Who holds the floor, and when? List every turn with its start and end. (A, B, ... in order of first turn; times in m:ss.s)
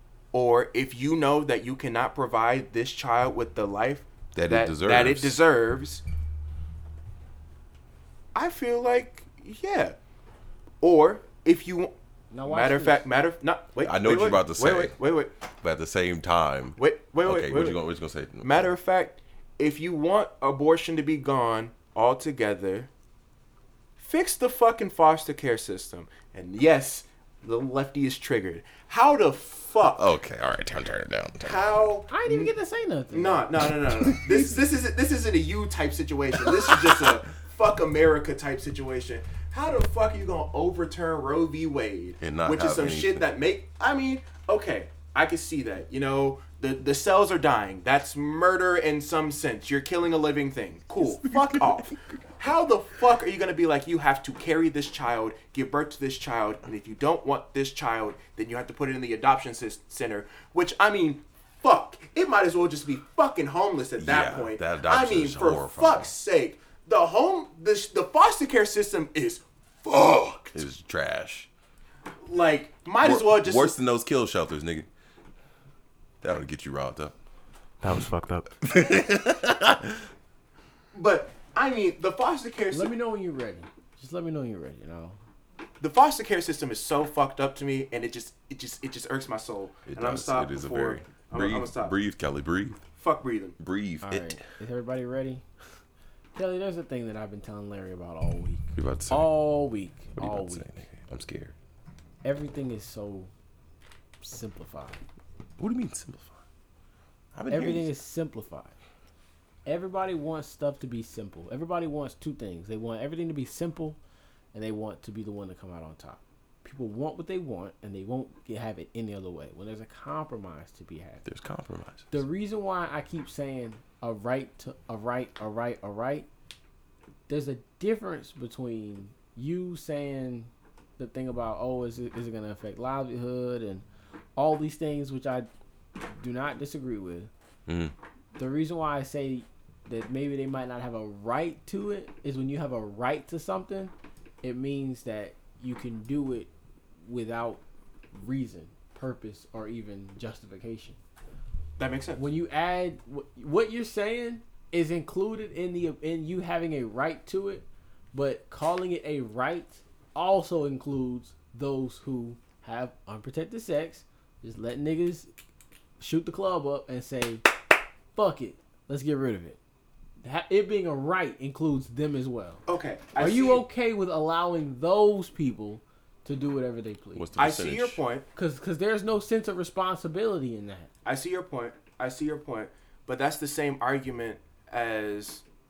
0:00.3-0:06.0 A
0:04.3-0:05.4 B
0:08.3-0:10.0 A
0:10.8-0:11.9 A
0:12.3-0:13.0 C
0:12.4-0:15.3 A
0:13.8-0:15.0 B
0:15.6-0:18.7 B
0:16.8-0:17.8 A
0:18.4-0:22.9 A
0:24.0-0:30.1 A
0:29.8-0:31.8 B
0:31.4-0:32.5 A
0:32.1-0:33.5 C
0:33.1-1:10.6 A
0:33.8-0:34.5 B
0:36.5-0:37.0 B
0:42.2-0:43.3 B
0:51.0-0:51.9 B
1:04.0-1:06.1 B
1:10.4-1:11.5 B
1:12.2-1:13.7 A
1:13.0-1:14.9 B
1:16.2-1:17.1 B
1:17.8-1:18.5 A
1:18.6-1:20.0 B
1:20.9-1:22.9 A
1:22.7-1:25.2 C
1:25.8-1:31.9 A
1:29.9-1:32.8 B
1:33.0-1:33.6 A
1:33.6-1:34.4 B
1:34.0-1:35.4 C
1:36.3-1:40.9 C
1:38.7-1:39.3 B
1:40.2-1:41.5 B
1:42.2-1:43.3 C
1:44.2-1:45.0 C
1:45.6-1:46.4 B
1:47.3-1:47.9 B
1:47.5-1:48.7 C
1:49.6-1:54.0 C
1:54.5-2:01.2 C
2:01.2-2:02.2 B
2:02.1-2:06.3 C
2:07.3-2:13.8 C
2:14.4-2:15.5 C
2:16.1-2:17.3 C
2:17.7-2:17.9 B
2:18.4-2:26.5 C
2:27.0-2:27.6 C
2:28.1-2:31.0 C
2:31.8-2:32.2 A
2:32.2-2:45.3 C
2:46.0-2:47.4 C
2:48.1-2:49.6 C
2:50.2-2:52.6 C
2:52.7-2:53.6 A
2:53.2-2:57.2 C
2:57.1-2:58.0 B
2:57.4-2:58.2 A
2:58.3-3:00.9 C
3:01.0-3:05.4 A